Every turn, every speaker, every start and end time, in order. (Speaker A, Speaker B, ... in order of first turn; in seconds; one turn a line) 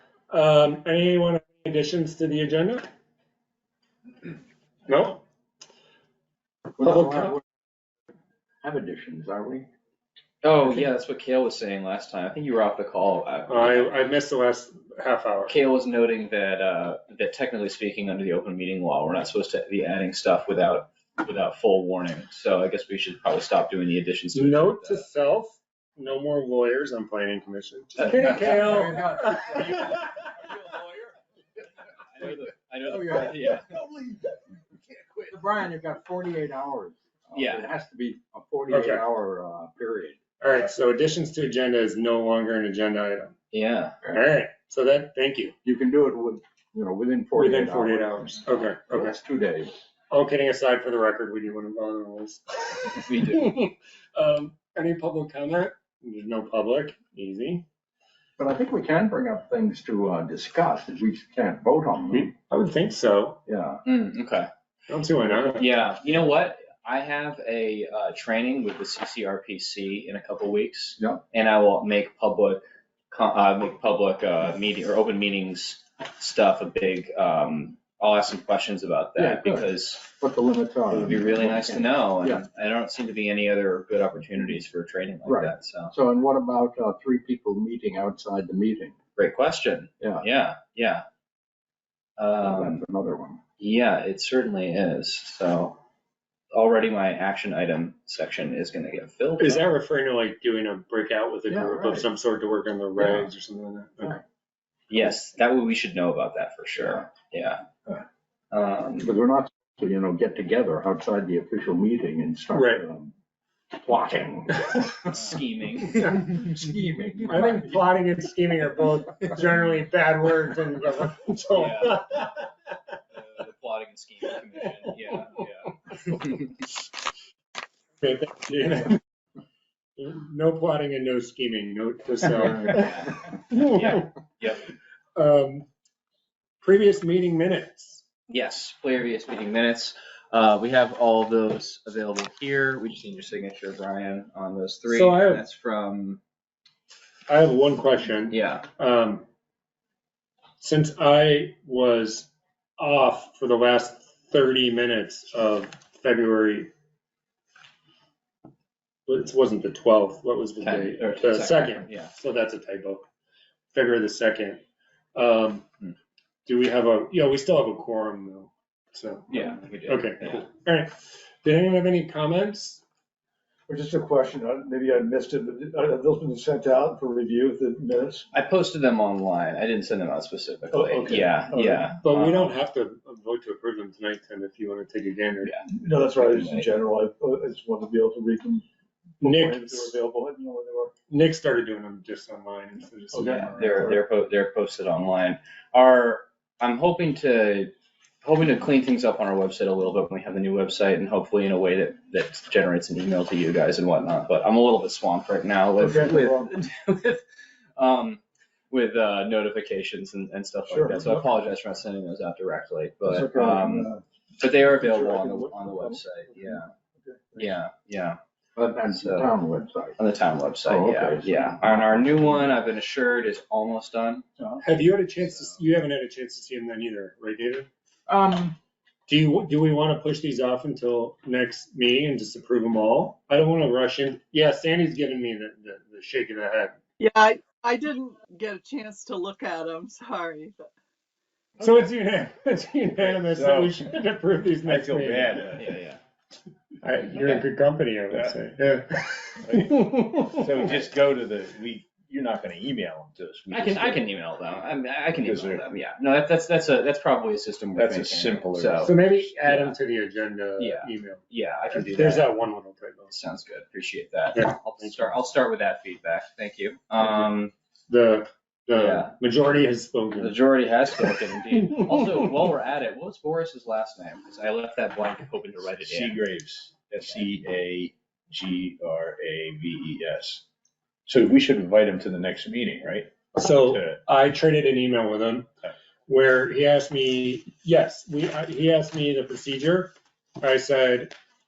Speaker A: 0.3-2.8
Speaker A: 4.9-5.2
Speaker B: 6.7-7.4
Speaker A: 6.8-7.3
Speaker B: 8.6-9.7
Speaker C: 10.4-13.9
Speaker A: 13.5-15.6
Speaker C: 15.4-25.1
Speaker A: 24.3-29.7
Speaker C: 28.0-28.9
Speaker B: 28.1-31.0
Speaker C: 32.1-33.7
Speaker B: 32.8-34.5
Speaker B: 35.3-40.2
Speaker C: 37.3-37.6
Speaker A: 38.7-39.0
Speaker A: 40.4-43.3
Speaker C: 43.5-44.0
Speaker A: 44.1-45.5
Speaker B: 45.6-49.7
Speaker A: 47.4-49.1
Speaker A: 50.1-57.6
Speaker C: 52.9-53.5
Speaker B: 58.4-62.3
Speaker A: 62.1-63.4
Speaker B: 63.5-63.8
Speaker C: 63.9-64.5
Speaker A: 64.9-65.7
Speaker C: 65.4-80.0
Speaker B: 79.2-82.4
Speaker C: 80.9-85.9
Speaker B: 85.2-89.0
Speaker C: 89.2-91.0
Speaker C: 92.2-92.8
Speaker B: 92.4-93.4
Speaker C: 93.6-95.8
Speaker C: 96.5-99.6
Speaker A: 99.4-104.2
Speaker B: 101.5-102.1
Speaker C: 104.9-107.6
Speaker C: 108.5-109.1
Speaker B: 109.0-113.1
Speaker A: 112.5-112.8
Speaker B: 113.7-114.9
Speaker C: 115.1-116.2
Speaker B: 115.9-117.8
Speaker A: 117.3-122.4
Speaker C: 121.5-122.3
Speaker C: 123.1-126.7
Speaker A: 128.0-129.0
Speaker A: 130.0-132.9
Speaker C: 132.4-134.7
Speaker A: 133.5-134.1
Speaker A: 135.2-135.7
Speaker A: 136.6-138.0
Speaker C: 138.3-146.2
Speaker A: 144.9-145.4
Speaker A: 147.3-149.2
Speaker C: 148.3-148.7
Speaker A: 150.6-156.7
Speaker A: 159.1-163.1
Speaker C: 160.6-162.1
Speaker A: 163.7-164.6
Speaker A: 165.1-165.7
Speaker A: 166.4-172.8
Speaker C: 169.3-170.5
Speaker D: 173.7-178.2
Speaker C: 178.3-182.5
Speaker D: 180.7-181.6
Speaker A: 182.0-185.5
Speaker C: 185.4-186.7
Speaker D: 185.7-188.6
Speaker B: 186.2-186.7
Speaker D: 189.2-190.9
Speaker A: 189.2-189.9
Speaker A: 191.1-193.9
Speaker D: 193.1-193.9
Speaker C: 193.5-207.2
Speaker B: 205.8-206.4
Speaker C: 207.8-216.7
Speaker B: 210.7-211.1
Speaker B: 213.1-214.0
Speaker D: 214.9-215.9
Speaker D: 217.1-217.5
Speaker C: 217.3-218.2
Speaker B: 218.6-220.0
Speaker C: 218.9-219.3
Speaker C: 220.0-224.2
Speaker B: 220.6-222.4
Speaker A: 224.6-227.7
Speaker C: 225.3-225.6
Speaker B: 228.1-228.6
Speaker A: 229.1-236.8
Speaker E: 237.0-240.6
Speaker A: 241.6-245.5
Speaker F: 243.0-243.8
Speaker F: 244.6-245.7
Speaker C: 245.5-246.0
Speaker A: 246.8-250.6
Speaker C: 247.1-247.4
Speaker F: 249.4-254.1
Speaker C: 253.5-259.8
Speaker F: 255.1-255.6
Speaker F: 257.8-259.0
Speaker A: 258.8-263.1
Speaker C: 260.6-262.3
Speaker C: 263.1-267.5
Speaker A: 264.3-265.2
Speaker A: 267.9-270.4
Speaker C: 268.7-269.1
Speaker C: 270.1-276.2
Speaker F: 275.8-280.4
Speaker F: 281.1-284.0
Speaker A: 283.3-285.5
Speaker A: 286.1-291.1